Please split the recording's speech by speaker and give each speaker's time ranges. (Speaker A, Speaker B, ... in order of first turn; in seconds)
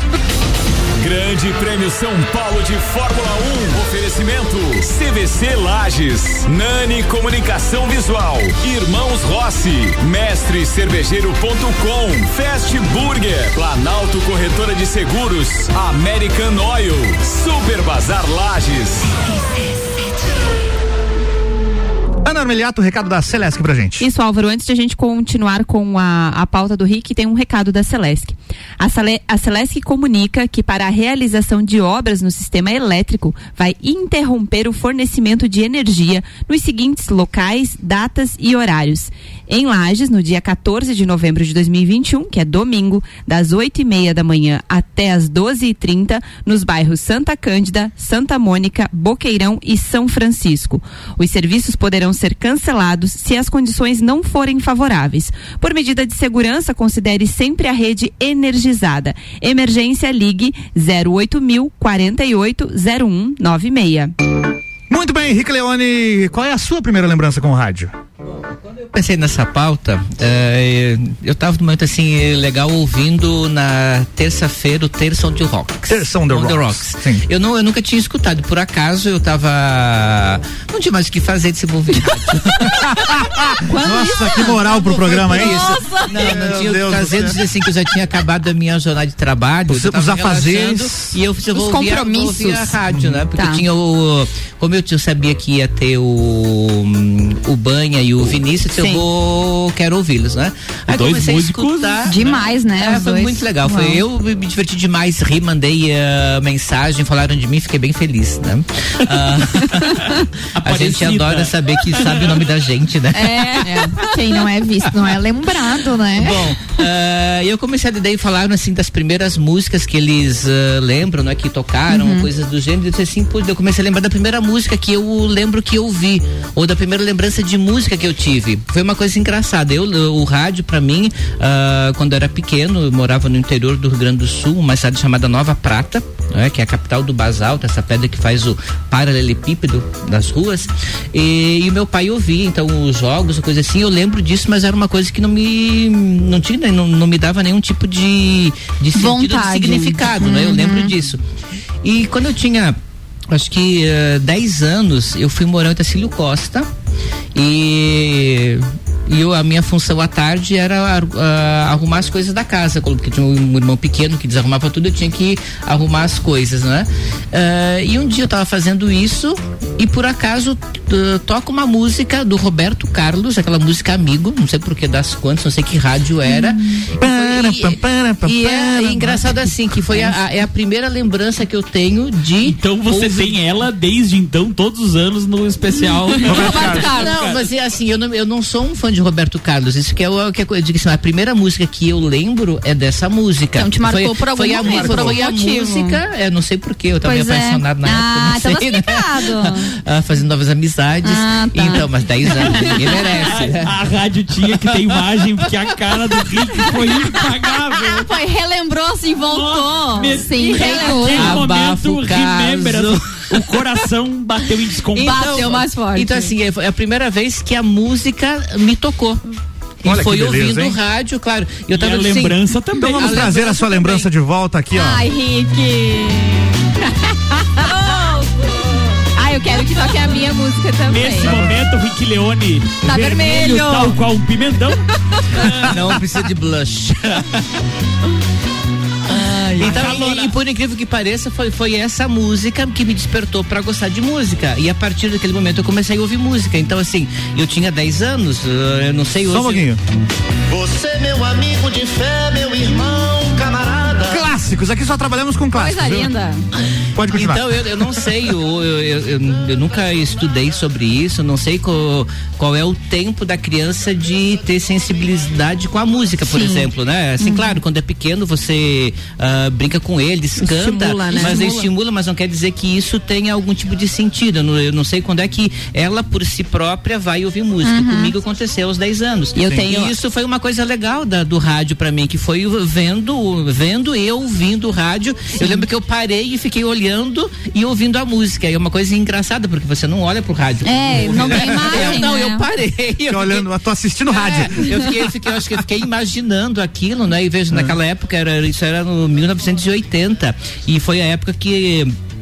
Speaker A: 1.0-19.1
Speaker B: 22.2-24.0, 64.9-67.9, 75.9-77.2, 82.7-87.4, 89.7-91.2, 177.0-179.5, 186.2-186.9, 194.6-195.2, 219.8-220.8, 222.8-225.1, 231.2-231.6, 249.3-249.8, 254.1-256.1, 256.9-257.5, 291.2-291.9, 293.1-295.1
Speaker C: 24.0-64.1, 83.7-85.2, 113.2-113.9, 224.7-228.1, 229.1-231.3, 270.4-271.7, 279.3-279.9
Speaker D: 68.8-82.9, 84.8-114.1, 116.1-151.2, 151.8-152.8, 153.3-156.7, 157.3-183.4, 186.7-203.7, 211.0-213.6, 215.0-219.2, 219.8-222.4, 222.9-224.0, 235.7-237.4, 239.6-249.7, 257.1-293.5, 294.1-301.9
Speaker E: 85.3-86.1, 93.3-93.6, 102.0-104.0, 121.9-122.3, 148.9-150.9, 186.2-187.2, 193.5-196.0, 197.0-199.7, 201.0-203.2, 207.7-211.4, 214.9-216.3, 232.8-233.9, 255.5-256.5, 266.2-266.7, 267.2-267.6, 271.2-271.5, 277.6-278.1, 285.4-285.6, 290.6-292.5
Speaker F: 91.6-92.6, 113.6-116.5
Speaker G: 100.9-102.2, 110.5-112.4, 182.4-187.4, 202.6-208.1, 209.2-215.6, 221.7-223.3, 230.9-235.8, 239.4-240.3
Speaker H: 250.5-254.2